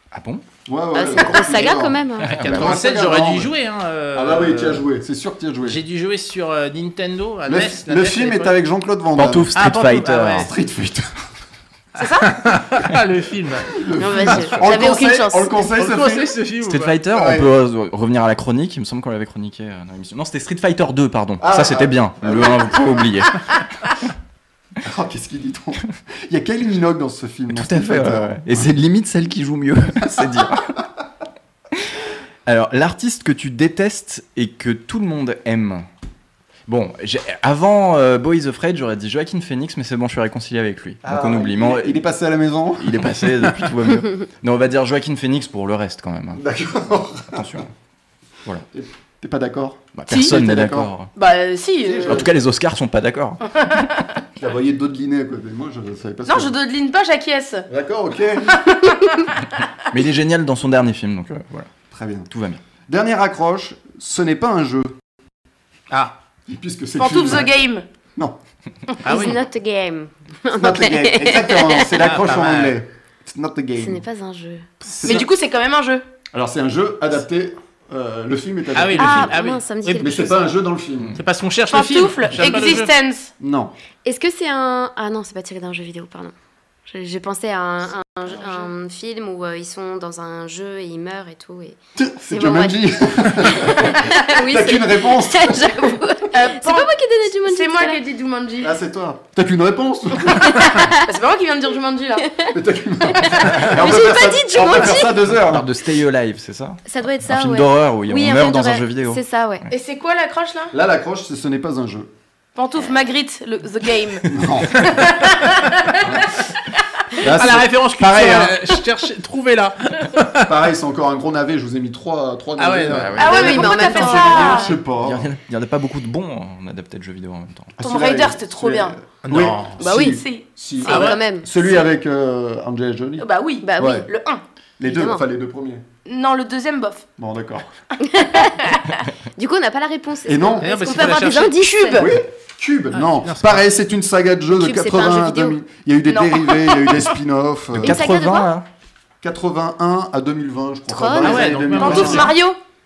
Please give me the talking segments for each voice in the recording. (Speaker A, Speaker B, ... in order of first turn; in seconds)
Speaker A: 0.1-0.4, 2.2-2.8, 9.1-10.5, 16.6-23.4, 27.5-30.7, 32.5-35.9, 36.7-42.0, 42.8-46.4, 47.3-47.6, 49.9-51.1, 52.1-53.4, 59.9-61.7, 62.3-62.6, 105.3-109.2, 122.9-123.7, 125.0-127.8, 147.7-148.7
Speaker B: 0.7-3.5, 4.1-5.8, 7.5-9.5, 10.3-11.1, 13.7-16.3, 17.1-17.5, 21.4-23.2, 24.8-28.6, 30.0-30.5, 41.0-43.7, 46.4-47.6, 48.7-50.9, 51.8-52.3, 54.4-56.5, 57.7-58.6, 61.9-62.3, 62.9-65.0, 66.5-67.5, 70.5-74.0, 75.0-75.3, 76.3-79.3, 80.0-81.2, 83.4-83.7, 92.0-96.0, 98.6-100.8, 102.5-105.7, 110.7-112.1, 114.3-115.1, 116.0-116.3, 117.2-118.8, 120.4-125.3, 127.8-134.1, 134.8-135.8, 137.2-137.7, 140.2-140.8, 141.9-148.0, 149.2-152.3
Speaker C: 0.9-2.4, 13.9-15.5, 69.0-72.0, 73.8-74.7, 79.0-80.5, 84.0-86.3, 86.9-91.8, 92.3-98.0, 100.5-101.0, 103.2-105.0, 106.8-109.7, 123.2-124.7, 129.8-130.2, 130.8-131.8, 133.6-134.1, 134.8-135.2, 138.0-138.8, 139.4-142.1, 144.6-145.6, 147.8-148.5, 150.9-151.5
Speaker D: 2.3-4.8, 5.6-8.6, 9.5-10.5, 12.0-14.6, 15.8-16.9, 65.9-66.2, 69.0-69.3, 72.0-72.7, 74.8-75.2, 78.7-80.2, 81.2-82.9, 117.2-120.6, 122.6-123.2, 129.2-129.8, 130.8-131.2, 140.6-141.6, 142.9-143.6, 151.2-152.3
Speaker E: 12.0-12.3, 50.1-50.4, 51.1-52.2, 53.6-54.1, 56.2-57.7, 58.6-59.3, 67.0-67.8, 75.0-76.0, 81.7-83.3, 88.3-88.7, 96.3-96.9, 97.5-98.7, 101.0-102.3, 103.5-105.2, 109.7-110.7, 112.5-116.8, 123.2-124.8, 127.8-128.9, 129.8-130.4, 133.2-134.4, 136.1-137.1, 138.3-139.0, 141.1-142.1, 146.1-147.1, 151.8-152.6